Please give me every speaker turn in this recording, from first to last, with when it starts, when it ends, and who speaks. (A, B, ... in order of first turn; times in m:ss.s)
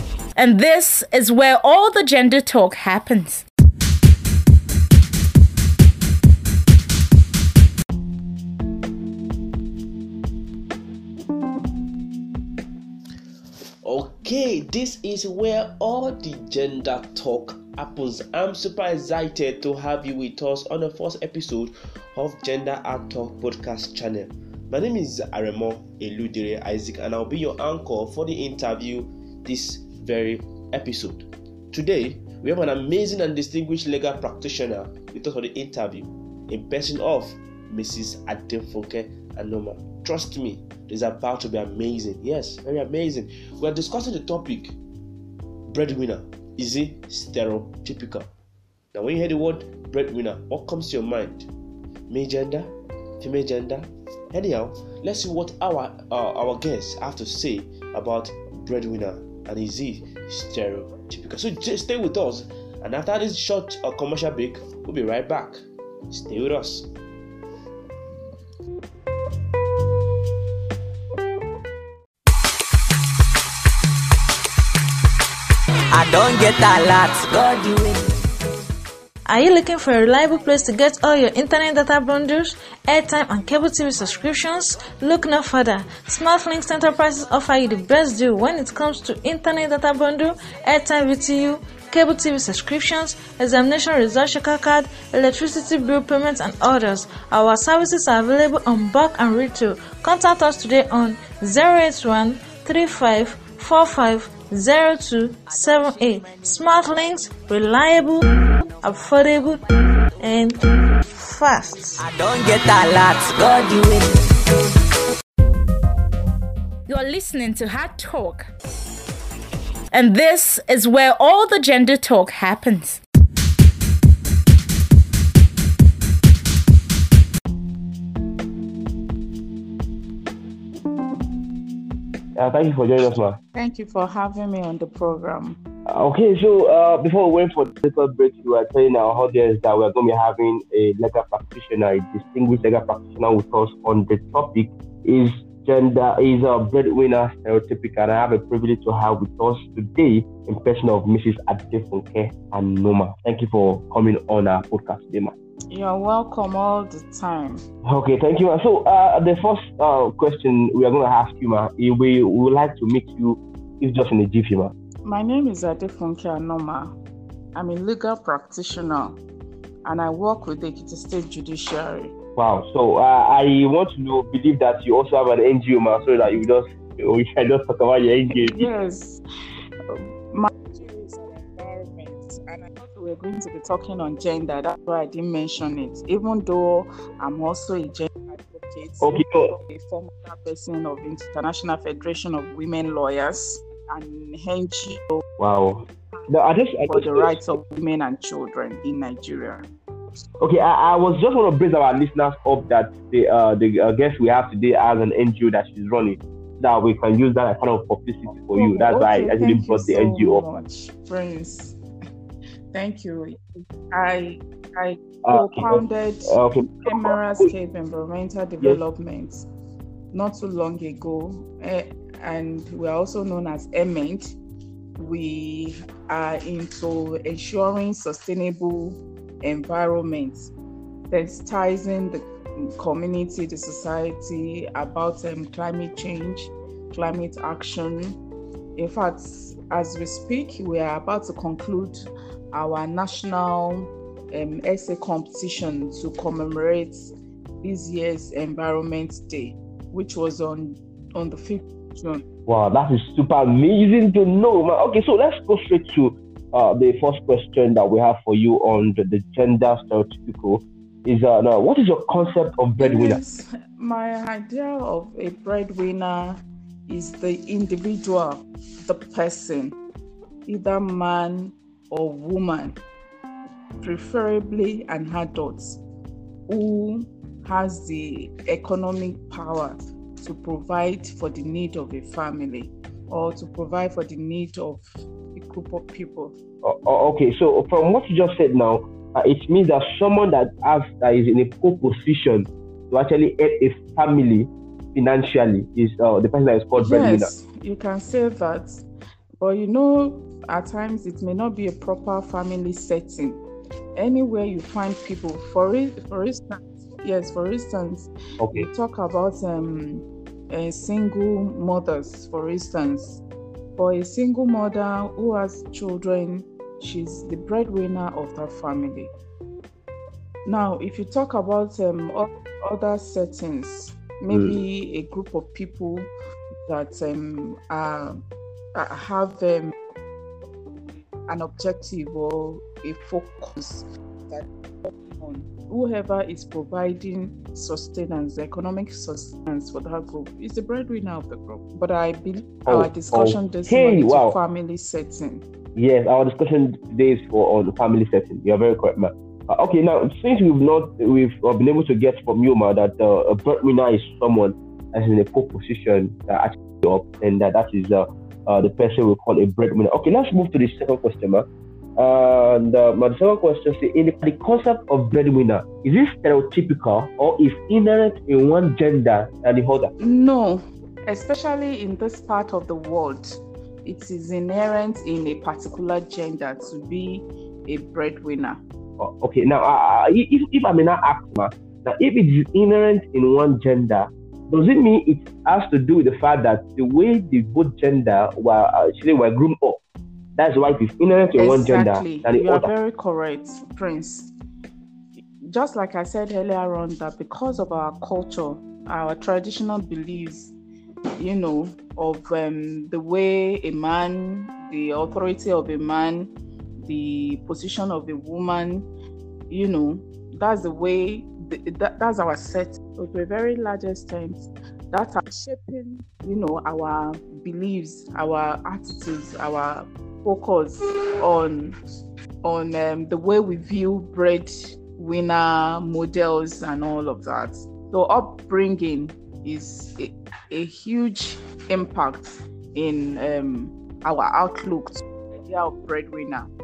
0:00.4-0:03.4 A
0:13.8-0:44.7 B
0:45.7-0:48.3 B
0:48.9-0:51.5 B
0:52.1-1:06.9 B
1:15.9-1:18.2 C
1:19.3-1:48.3 D
1:48.8-1:49.6 D
1:50.2-1:50.6 D
1:51.2-1:52.0 D
1:52.0-1:54.2 C
1:56.9-1:58.5 A
1:59.9-2:03.0 A
2:12.4-2:13.4 B
2:13.6-2:15.6 E
2:15.9-2:35.3 B
2:35.7-2:37.6 E
2:37.8-2:44.7 B
2:45.0-2:46.9 E
2:47.6-2:49.2 E
2:49.8-2:52.1 E
2:52.4-2:58.7 B
2:58.3-2:59.2 E
2:59.9-3:15.2 E
3:09.0-3:09.5 B
3:15.4-3:17.4 B
3:16.9-3:19.7 E
3:20.4-3:30.4 B
3:28.5-3:31.8 E
3:32.7-3:39.5 E
3:35.2-3:37.5 B
3:40.1-3:44.3 E
3:45.0-3:50.5 E
3:51.1-3:58.2 E
3:58.8-4:02.0 E
4:02.5-4:12.2 E
4:12.5-4:23.2 B
4:22.8-4:29.8 E
4:30.5-4:32.8 E
4:33.8-4:35.8 E
4:36.5-4:46.3 E
4:46.6-4:57.3 B
4:56.8-4:58.8 E
4:59.4-5:03.4 E
5:04.0-5:13.2 E
5:08.4-5:08.7 B
5:13.8-5:19.1 E
5:20.5-5:26.1 E
5:24.3-5:24.6 B
5:26.6-5:28.2 E
5:28.8-5:29.7 E
5:31.3-5:45.4 E
5:42.7-5:44.4 B
5:45.8-6:01.5 B
6:02.0-6:09.9 B
6:10.0-6:18.6 E
6:19.0-6:29.8 B
6:30.4-6:32.7 B
6:31.4-6:34.3 E
6:35.4-6:40.5 E
6:41.2-6:48.9 E
6:49.5-7:01.8 E
7:02.4-7:16.5 E